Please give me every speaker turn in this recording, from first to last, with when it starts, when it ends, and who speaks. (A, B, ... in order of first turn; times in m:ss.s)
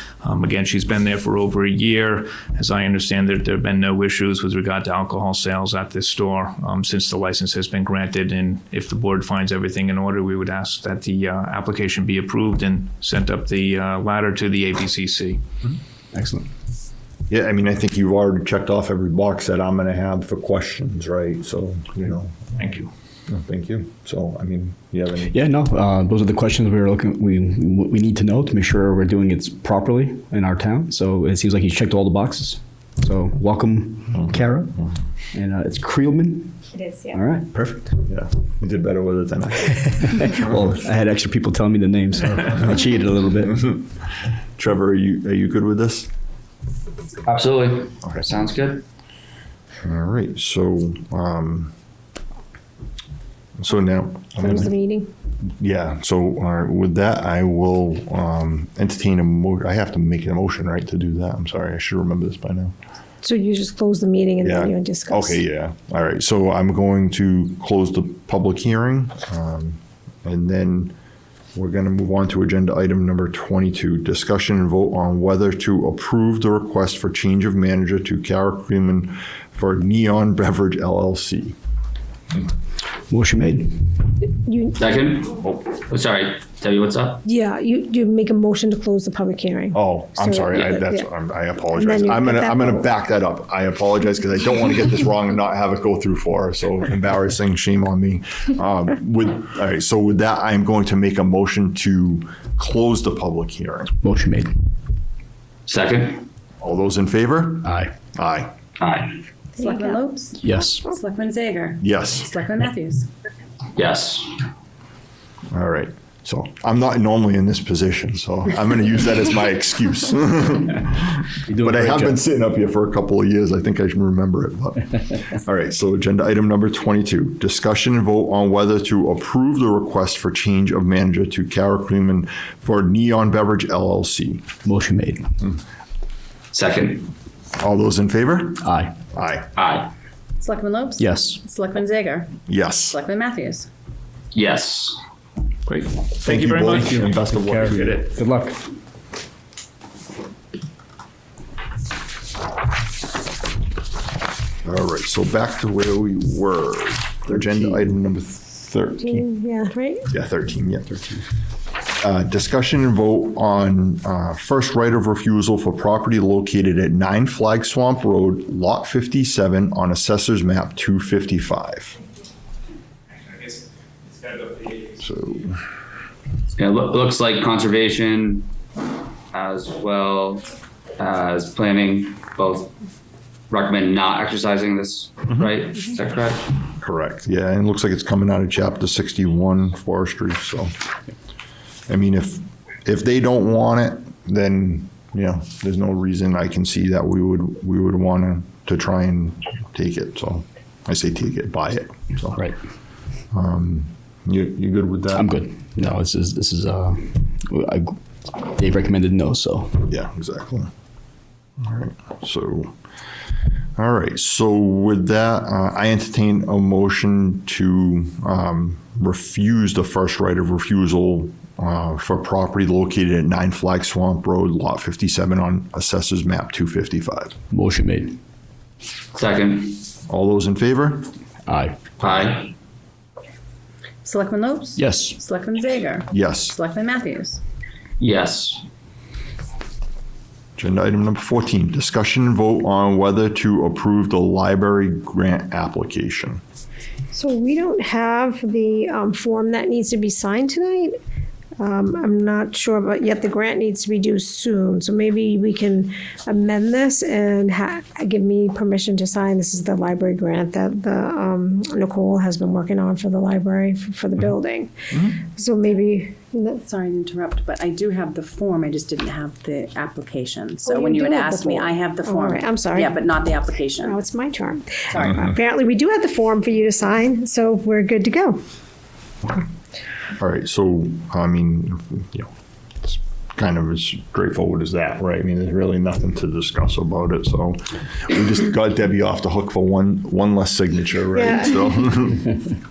0:00.2-0:15.4 A
0:16.1-0:16.5 B
0:17.3-0:22.4 C
0:22.6-0:22.9 A
0:23.3-0:25.4 C
0:25.3-0:38.0 B
0:36.8-0:37.1 D
0:38.1-0:39.9 C
0:40.0-0:43.8 B
0:44.6-0:46.1 C
0:47.3-0:48.8 E
0:49.8-0:51.7 C
0:53.6-0:54.7 C
0:54.4-0:55.1 D
0:55.6-1:02.7 C
1:03.2-1:05.4 D
1:04.4-1:11.0 C
1:11.6-1:21.6 C
1:23.1-1:23.9 B
1:24.4-1:24.9 D
1:24.8-1:27.2 E
1:27.2-1:31.1 D
1:29.7-1:43.9 C
1:31.7-1:32.8 D
1:44.0-1:44.5 B
1:45.7-1:46.2 E
1:46.6-1:48.5 C
1:47.6-1:47.9 B
1:48.8-1:49.2 E
1:49.6-1:53.1 F
1:49.6-1:50.0 D
1:50.4-1:50.9 B
1:51.8-1:52.3 C
1:53.8-1:54.4 E
1:55.5-2:14.5 C
2:01.5-2:02.2 B
2:14.6-2:15.3 B
2:16.5-2:17.1 E
2:17.6-2:18.6 C
2:18.6-2:19.0 B
2:19.1-2:19.5 C
2:19.6-2:19.9 E
2:20.4-2:23.7 F
2:21.0-2:21.4 B
2:22.5-2:23.0 C
2:24.3-2:25.0 E
2:25.7-2:28.2 A
2:26.2-2:28.0 C
2:27.3-2:28.6 B
2:34.6-2:39.3 C
2:37.3-2:37.8 B
2:39.0-2:40.1 D
2:40.1-2:41.0 C
2:42.0-2:52.0 C
2:55.0-2:55.6 C
2:56.6-2:58.5 E
2:59.3-3:02.7 E
3:03.5-3:06.5 E
3:06.8-3:10.7 C
3:11.9-3:22.4 C
3:23.3-3:25.3 C
3:25.1-3:29.9 B
3:29.9-3:30.7 C
3:31.6-3:32.7 C
3:33.8-3:47.4 C
3:47.5-3:48.2 B
3:49.1-3:49.8 E
3:50.1-3:51.1 C
3:51.5-3:51.8 B
3:52.0-3:52.5 E
3:54.0-3:57.4 F
3:54.8-3:55.2 B
3:56.1-3:56.6 C
3:58.0-3:58.6 E
4:00.6-4:06.4 C
4:07.1-4:10.9 D
4:11.6-4:24.7 D
4:25.4-4:26.6 D
4:26.6-4:34.0 F
4:30.6-4:33.0 D
4:33.8-4:38.4 D
4:34.9-4:35.3 F
4:40.2-4:42.3 C
4:42.8-4:52.3 C
4:51.2-4:51.6 D